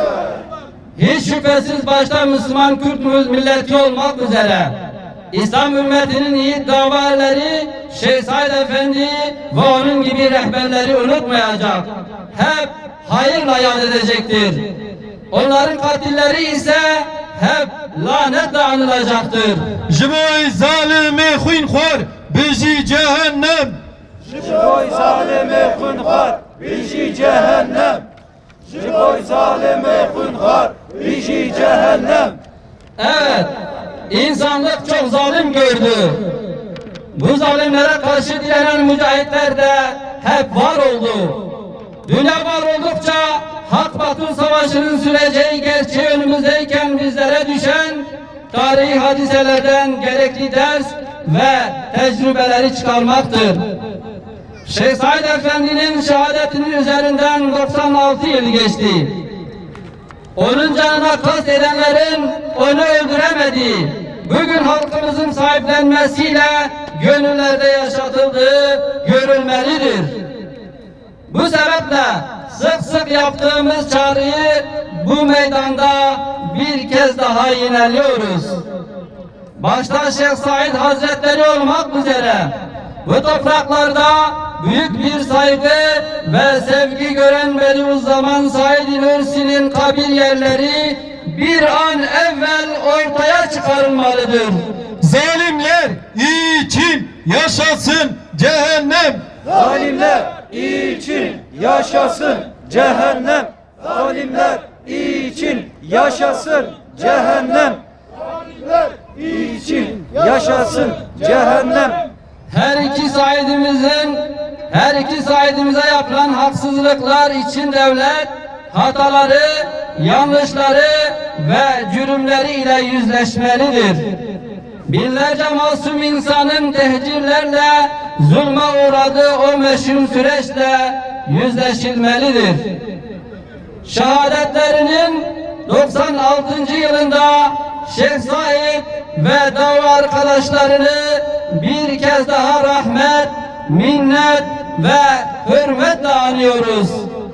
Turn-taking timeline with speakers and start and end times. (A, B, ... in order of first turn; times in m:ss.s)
0:01.0-0:04.8 A
0:05.3-0:14.7 A
0:15.3-0:19.8 A
0:19.9-0:23.8 B
0:24.4-0:28.0 C
0:28.8-0:32.4 C
0:33.0-0:33.5 A
0:34.1-0:36.4 A
0:37.1-0:41.5 A
0:42.0-0:53.7 A
0:54.6-0:59.2 A
1:00.4-1:10.2 A
1:11.3-1:18.6 A
1:19.6-1:34.7 A
1:35.0-1:39.2 B
1:39.5-1:47.8 C
1:49.1-1:52.0 C
1:52.5-2:04.2 A
2:04.8-2:12.7 A
2:13.8-2:27.1 A